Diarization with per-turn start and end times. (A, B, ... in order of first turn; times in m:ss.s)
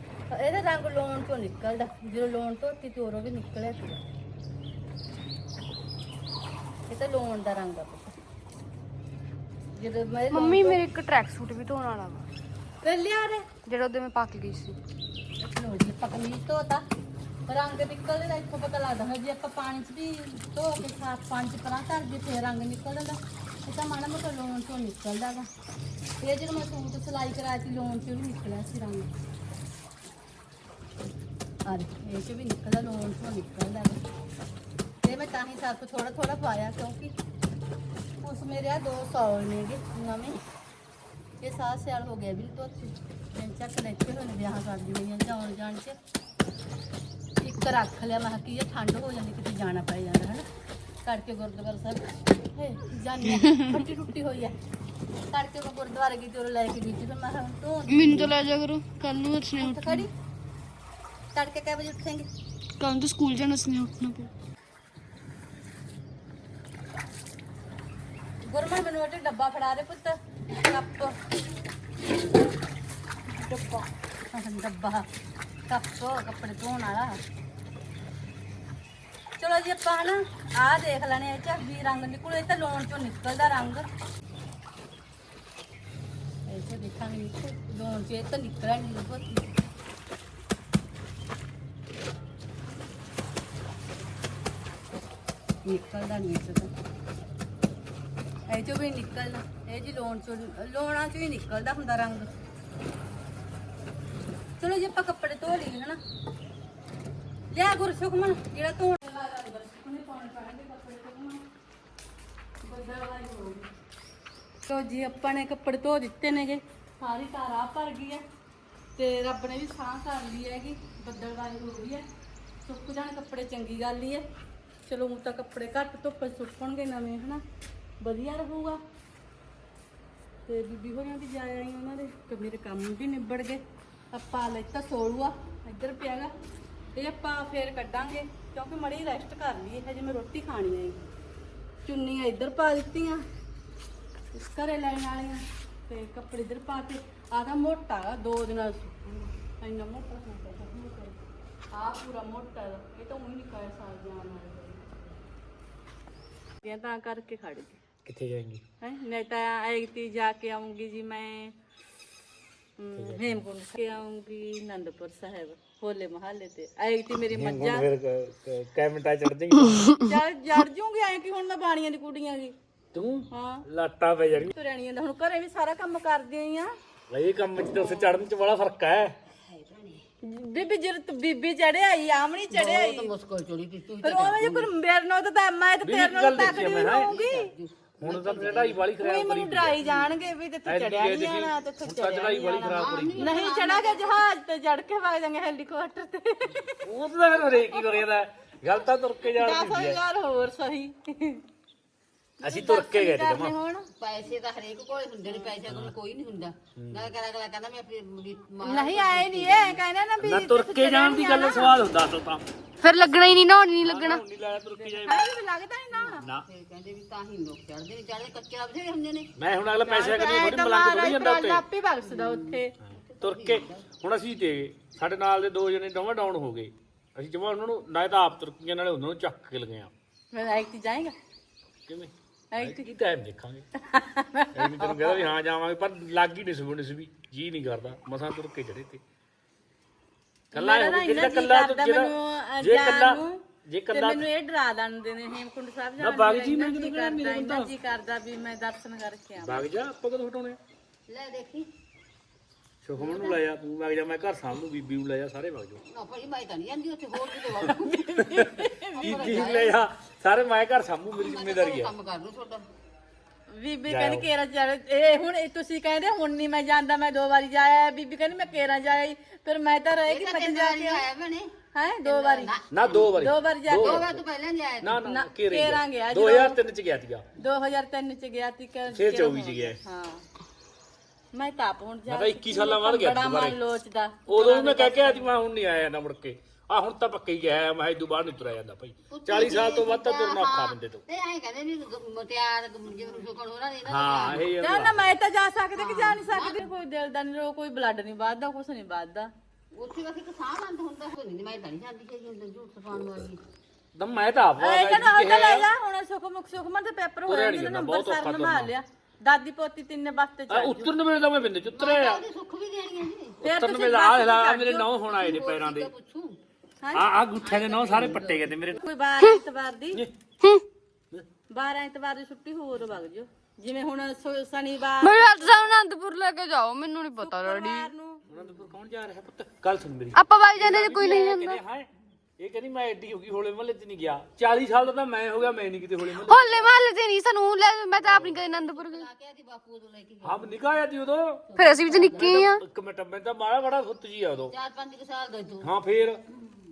0:00.3-0:04.0 A
0:06.9-0:08.2 A
0:09.7-0:10.8 A
0:10.3-0:12.2 B
0:12.8-0:13.5 A
0:13.6-0:14.8 B
0:15.4-0:16.8 A
0:17.5-0:25.5 A
0:26.2-0:29.1 A
0:31.6-0:34.0 A
0:35.0-0:37.1 A
0:38.2-0:40.4 A
0:41.4-0:46.0 A
0:47.4-0:50.4 A
0:51.0-0:54.6 A
0:53.2-0:53.8 B
0:55.3-0:58.5 A
0:57.9-1:00.1 B
0:59.6-1:00.1 A
1:01.3-1:02.3 A
1:02.8-1:04.3 B
1:08.4-1:11.2 A
1:13.4-1:15.1 A
1:15.7-1:17.2 A
1:19.4-1:23.9 A
1:26.5-1:29.5 A
1:35.6-1:36.7 A
1:38.5-1:42.3 A
1:44.6-1:46.0 A
1:47.5-1:51.4 A
1:52.6-1:53.7 A
1:54.6-1:58.2 A
1:59.0-2:02.0 A
2:02.6-2:04.2 A
2:04.8-2:07.4 A
2:08.0-2:08.8 A
2:10.4-2:16.3 A
2:17.0-2:21.0 A
2:21.8-2:23.2 A
2:24.3-2:31.1 A
2:31.7-2:35.1 A
2:36.6-2:37.8 A
2:38.0-2:38.6 C
2:38.8-2:41.5 A
2:42.8-2:47.9 A
2:42.9-2:43.4 C
2:47.3-2:49.9 C
2:50.0-2:52.5 A
2:52.9-2:54.5 C
2:53.3-2:53.6 A
2:54.5-2:56.7 A
2:57.1-2:59.2 C
2:57.7-2:58.2 A
2:59.5-3:00.0 D
3:00.2-3:03.1 A
3:02.5-3:04.7 D
3:04.0-3:07.5 A
3:05.8-3:07.1 C
3:06.6-3:08.9 D
3:08.0-3:09.9 C
3:09.0-3:16.8 A
3:10.6-3:13.3 C
3:12.6-3:14.2 D
3:16.8-3:20.0 C
3:19.4-3:21.4 A
3:22.4-3:23.9 A
3:22.4-3:23.5 C
3:24.0-3:29.8 D
3:25.7-3:25.9 C
3:26.8-3:27.1 C
3:28.6-3:31.8 A
3:30.2-3:32.4 C
3:32.8-3:34.2 B
3:33.8-3:35.3 C
3:34.8-3:36.2 A
3:36.0-3:39.3 D
3:39.4-3:41.6 C
3:39.8-3:42.7 A
3:42.0-3:43.8 D
3:43.2-3:49.9 C
3:50.3-3:51.1 A
3:51.9-3:53.6 C
3:52.5-3:52.8 A
3:53.8-3:55.3 A
3:54.5-3:59.0 C
4:00.5-4:04.2 C
4:00.5-4:09.7 A
4:06.0-4:07.7 C
4:09.4-4:10.6 C
4:11.1-4:11.7 D
4:12.8-4:15.8 C
4:13.0-4:13.4 D
4:15.9-4:18.1 D
4:17.6-4:19.5 A
4:18.2-4:21.9 C
4:18.9-4:19.8 D
4:21.2-4:22.6 D
4:23.5-4:31.0 A
4:23.9-4:24.2 C
4:30.0-4:31.5 D
4:31.7-4:32.5 A
4:32.0-4:33.1 D
4:32.7-4:34.2 C
4:33.1-4:34.1 A
4:33.8-4:35.0 D
4:34.8-4:37.2 C
4:35.0-4:36.6 A
4:37.4-4:40.2 A
4:38.9-4:39.8 C
4:41.3-4:45.3 A
4:42.1-4:43.6 C
4:44.3-4:51.0 C
4:49.1-4:54.4 D
4:53.8-4:55.1 C
4:54.6-4:59.3 A
4:55.7-4:56.6 D
4:59.7-5:03.4 D
5:04.0-5:05.7 C
5:04.6-5:11.0 A
5:07.3-5:08.7 C
5:10.5-5:12.2 C
5:11.7-5:13.4 D
5:13.4-5:14.9 A
5:13.4-5:15.9 C
5:15.1-5:16.4 D
5:16.9-5:18.8 C
5:17.4-5:18.6 D
5:18.7-5:20.0 A
5:21.5-5:25.8 A
5:25.0-5:27.9 B
5:27.2-5:28.2 A
5:28.3-5:36.7 C
5:30.1-5:31.6 B
5:36.2-5:39.1 B
5:38.0-5:38.4 C
5:38.1-5:40.6 D
5:40.2-5:44.5 C
5:41.5-5:42.4 D
5:41.6-5:42.6 B
5:44.5-5:45.7 D
5:45.6-5:46.2 C